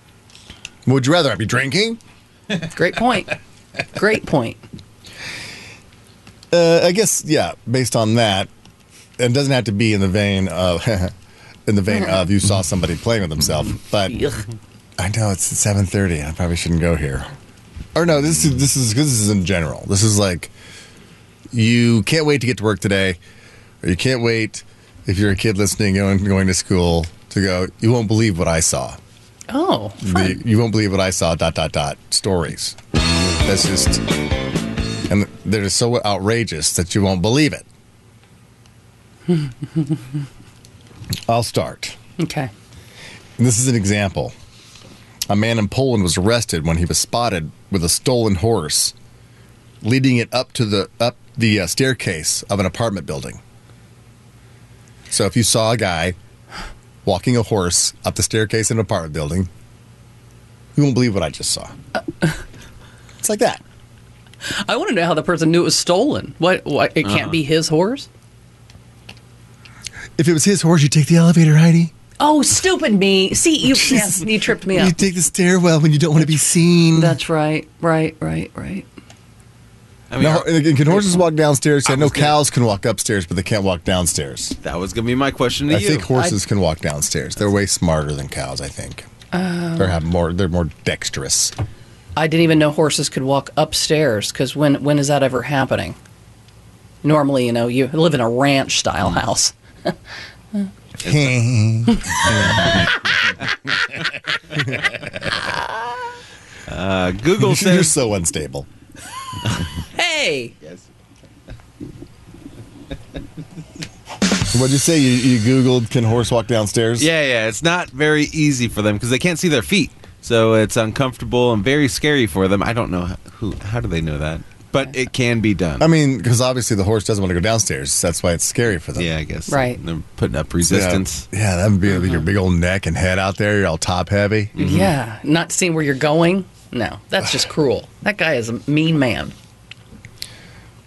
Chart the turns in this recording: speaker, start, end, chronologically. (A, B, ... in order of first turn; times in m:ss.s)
0:00.9-0:02.0 A
0:02.7-0:03.4 B
0:03.9-0:04.6 B
0:06.5-0:08.5 A
0:09.2-0:11.1 A
0:11.7-0:14.2 A
0:11.9-0:12.2 B
0:14.1-0:14.4 B
0:15.0-0:17.3 A
0:18.0-0:20.5 A
0:21.5-0:23.2 A
0:23.8-0:29.0 A
0:29.5-0:30.4 B
0:30.0-0:32.8 A
0:33.4-0:34.0 A
0:35.1-0:37.6 A
0:39.3-0:40.0 B
0:41.3-0:42.0 A
0:42.2-0:42.5 B
0:43.4-0:44.3 A
0:45.3-0:48.9 A
0:49.8-0:53.4 A
0:55.1-0:56.2 A
0:57.0-0:59.5 A
1:00.8-1:01.7 A
1:03.2-1:03.6 A
1:04.6-1:08.1 B
1:07.0-1:07.3 C
1:10.2-1:11.9 A
1:12.2-1:15.0 B
1:13.7-1:17.2 A
1:17.0-1:18.8 B
1:20.1-1:20.5 C
1:20.2-1:24.6 A
1:21.9-1:22.4 C
1:24.6-1:26.1 C
1:25.7-1:29.1 A
1:29.3-1:30.0 B
1:29.8-1:31.6 A
1:32.2-1:36.0 B
1:37.0-1:39.9 B
1:41.0-1:42.7 A
1:41.0-1:41.3 C
1:41.9-1:42.3 B
1:45.4-1:45.6 B
1:46.7-1:47.9 C
1:47.4-1:48.7 A
1:49.9-1:50.5 B
1:54.5-1:57.1 A
1:57.0-2:05.9 C
2:05.8-2:09.1 A
2:09.0-2:11.2 C
2:09.5-2:09.8 B
2:10.6-2:14.6 A
2:11.9-2:12.2 B
2:14.6-2:19.3 B
2:14.6-2:14.9 C